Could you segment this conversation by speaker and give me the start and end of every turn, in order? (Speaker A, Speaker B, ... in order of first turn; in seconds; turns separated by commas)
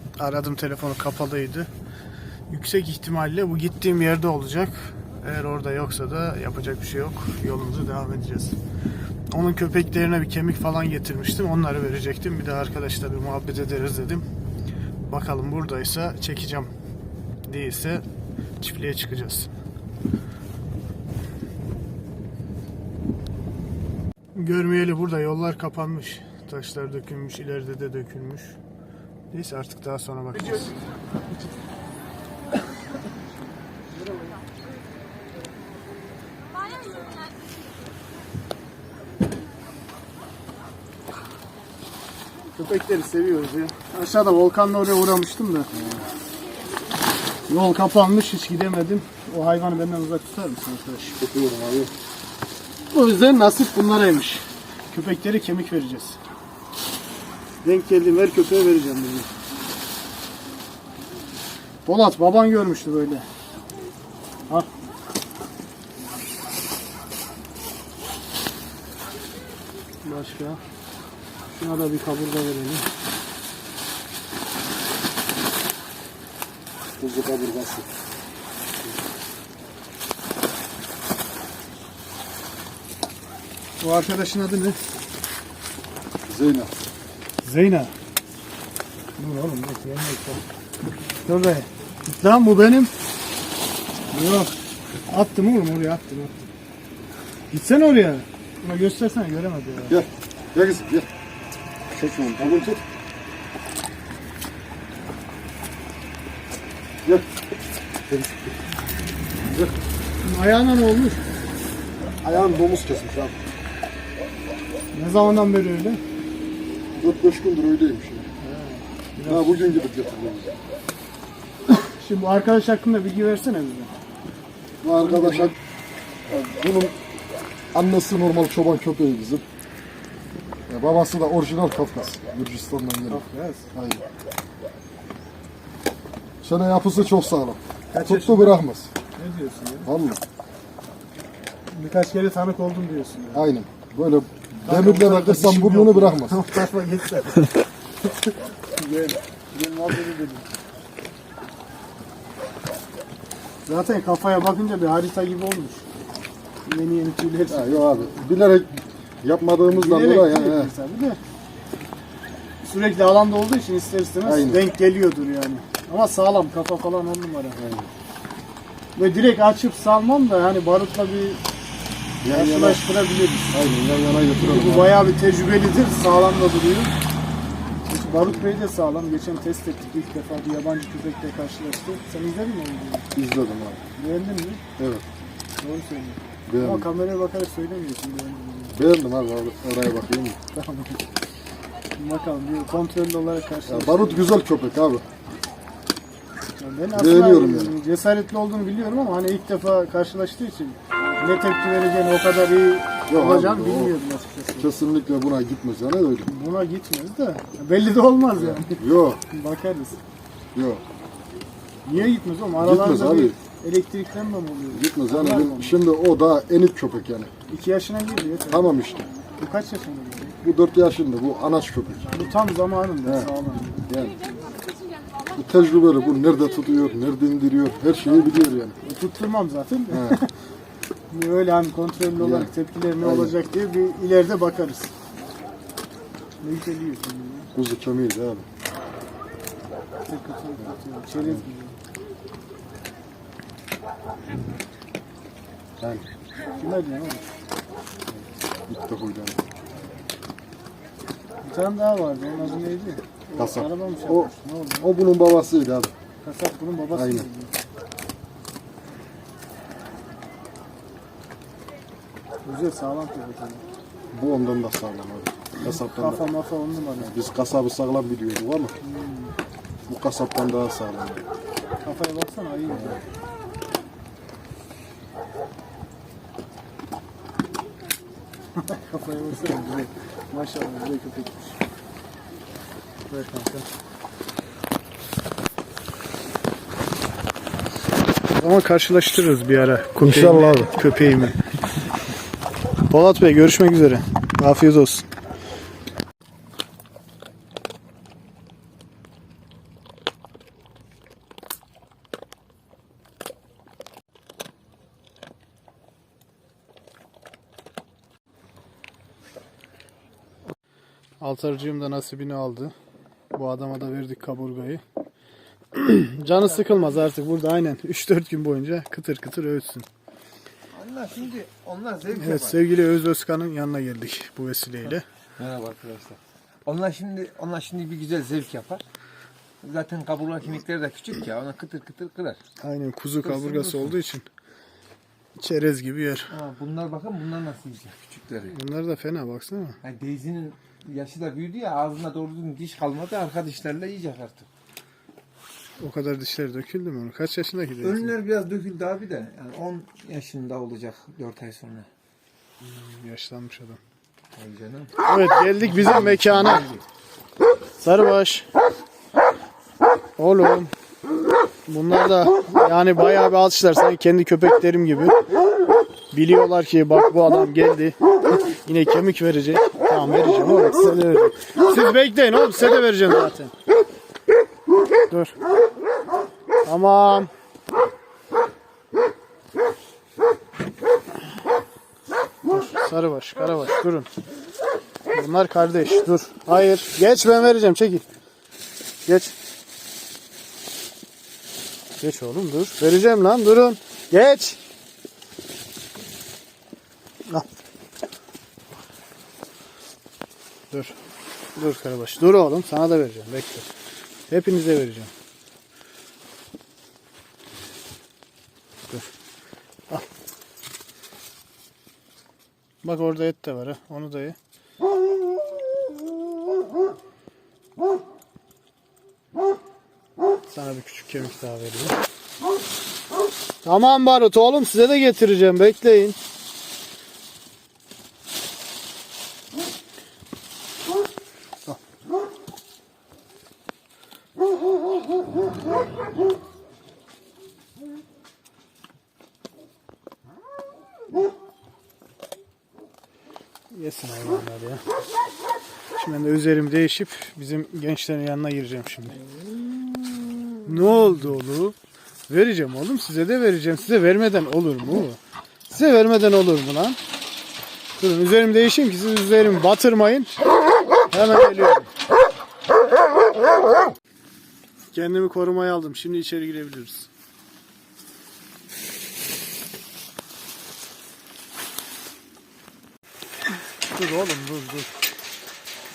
Speaker A: 0.2-1.7, Speaker A: 2.5-8.6, Speaker A: 9.3-14.2, Speaker A: 15.1-16.7, Speaker A: 17.4-18.0, Speaker A: 18.6-19.5, Speaker A: 24.3-28.6, Speaker A: 29.3-30.8, Speaker A: 42.5-45.7, Speaker A: 47.5-51.2, Speaker B: 51.2-51.9, Speaker A: 52.9-56.2, Speaker A: 57.6-59.3, Speaker A: 61.9-63.2, Speaker A: 70.0-70.6, Speaker A: 71.5-72.9, Speaker B: 77.0-77.9, Speaker A: 83.8-84.8, Speaker B: 86.2-86.7, Speaker A: 87.4-87.9, Speaker A: 89.2-90.4, Speaker A: 91.2-92.9, Speaker A: 94.1-94.5, Speaker A: 95.1-96.3, Speaker A: 97.5-100.0, Speaker B: 99.9-101.1, Speaker B: 101.9-102.8, Speaker A: 102.4-102.7, Speaker A: 108.1-108.5, Speaker A: 110.2-111.2, Speaker B: 112.2-113.4, Speaker A: 114.9-116.0, Speaker B: 117.0-118.3, Speaker A: 118.4-119.8, Speaker B: 119.2-120.5, Speaker A: 121.7-123.9, Speaker B: 124.8-125.5, Speaker A: 125.0-125.5, Speaker B: 126.3-127.0, Speaker B: 127.7-129.4, Speaker B: 130.7-134.0, Speaker A: 133.1-133.6, Speaker B: 136.4-138.9, Speaker A: 137.9-138.6, Speaker A: 139.2-139.8, Speaker C: 139.2-139.8, Speaker B: 139.8-140.2, Speaker A: 141.7-143.4, Speaker B: 143.3-146.5, Speaker A: 144.6-147.6, Speaker A: 148.7-150.5, Speaker A: 153.7-155.8, Speaker A: 156.6-158.2, Speaker B: 157.5-160.7, Speaker A: 159.7-161.2, Speaker A: 162.6-167.6, Speaker B: 164.2-164.6, Speaker B: 167.6-167.9, Speaker A: 168.9-171.4, Speaker B: 172.2-172.8, Speaker A: 172.3-173.6, Speaker B: 173.5-175.0, Speaker A: 174.4-176.9, Speaker A: 177.9-183.1, Speaker B: 178.2-178.5, Speaker B: 183.2-183.8, Speaker A: 183.9-184.6, Speaker B: 184.8-185.0, Speaker A: 185.6-188.8, Speaker B: 186.5-186.9, Speaker B: 188.7-190.4, Speaker A: 190.5-191.0, Speaker A: 191.9-194.3, Speaker B: 193.7-195.0, Speaker A: 196.6-204.7, Speaker B: 196.9-197.8, Speaker B: 203.1-203.9, Speaker B: 204.6-206.3, Speaker A: 206.2-210.0, Speaker B: 208.3-209.2, Speaker B: 210.5-210.8, Speaker A: 211.8-215.8, Speaker B: 212.6-213.4, Speaker B: 214.7-217.3, Speaker A: 217.5-218.8, Speaker B: 218.5-219.1, Speaker A: 219.4-220.4, Speaker B: 220.4-222.1, Speaker A: 222.1-223.9, Speaker B: 223.1-223.3, Speaker B: 223.9-224.2, Speaker B: 225.3-228.8, Speaker A: 228.1-230.3, Speaker B: 229.9-230.2, Speaker A: 231.1-234.9, Speaker B: 232.2-233.4, Speaker A: 236.4-237.5, Speaker B: 237.5-238.4, Speaker A: 240.1-241.8, Speaker B: 241.2-241.4, Speaker B: 245.8-246.0, Speaker A: 246.6-247.2, Speaker B: 248.1-249.4, Speaker A: 251.4-254.9, Speaker B: 253.3-255.9, Speaker A: 256.2-257.5, Speaker B: 256.9-257.3, Speaker A: 262.4-263.6, Speaker B: 264.1-266.2, Speaker A: 265.6-267.1, Speaker B: 267.0-268.7, Speaker A: 268.8-269.3, Speaker B: 269.9-271.2, Speaker A: 271.8-273.0, Speaker B: 272.7-273.0, Speaker A: 278.6-281.6, Speaker A: 283.1-283.7, Speaker A: 288.3-291.4, Speaker B: 290.0-290.7, Speaker A: 292.9-295.1, Speaker A: 311.2-312.7, Speaker A: 313.3-314.8, Speaker A: 315.7-319.9, Speaker C: 316.2-317.0, Speaker C: 320.7-322.6, Speaker A: 322.1-325.0, Speaker C: 325.4-328.8, Speaker C: 329.6-332.4, Speaker A: 332.6-334.2, Speaker C: 333.2-334.0, Speaker A: 335.4-336.3, Speaker C: 336.3-338.5, Speaker A: 338.5-339.8, Speaker C: 339.8-344.5, Speaker A: 345.8-348.1, Speaker C: 347.8-351.9, Speaker A: 352.6-353.8, Speaker C: 354.4-356.8, Speaker A: 355.0-356.7, Speaker A: 357.8-358.5, Speaker A: 360.2-360.7, Speaker A: 361.6-365.1, Speaker A: 366.1-373.5, Speaker A: 375.1-375.3, Speaker A: 376.6-377.3, Speaker A: 382.5-384.1, Speaker A: 385.1-388.0, Speaker A: 389.1-389.3, Speaker A: 392.0-394.6, Speaker A: 400.7-400.9, Speaker A: 401.5-403.6, Speaker A: 404.3-405.1, Speaker A: 412.8-414.4, Speaker A: 420.5-421.9, Speaker A: 423.6-426.2, Speaker A: 443.7-444.8, Speaker A: 445.9-449.2, Speaker C: 449.5-450.7, Speaker A: 450.6-451.8, Speaker A: 452.3-457.0, Speaker A: 458.0-460.4, Speaker A: 461.1-461.9, Speaker A: 464.9-467.1, Speaker A: 473.9-474.9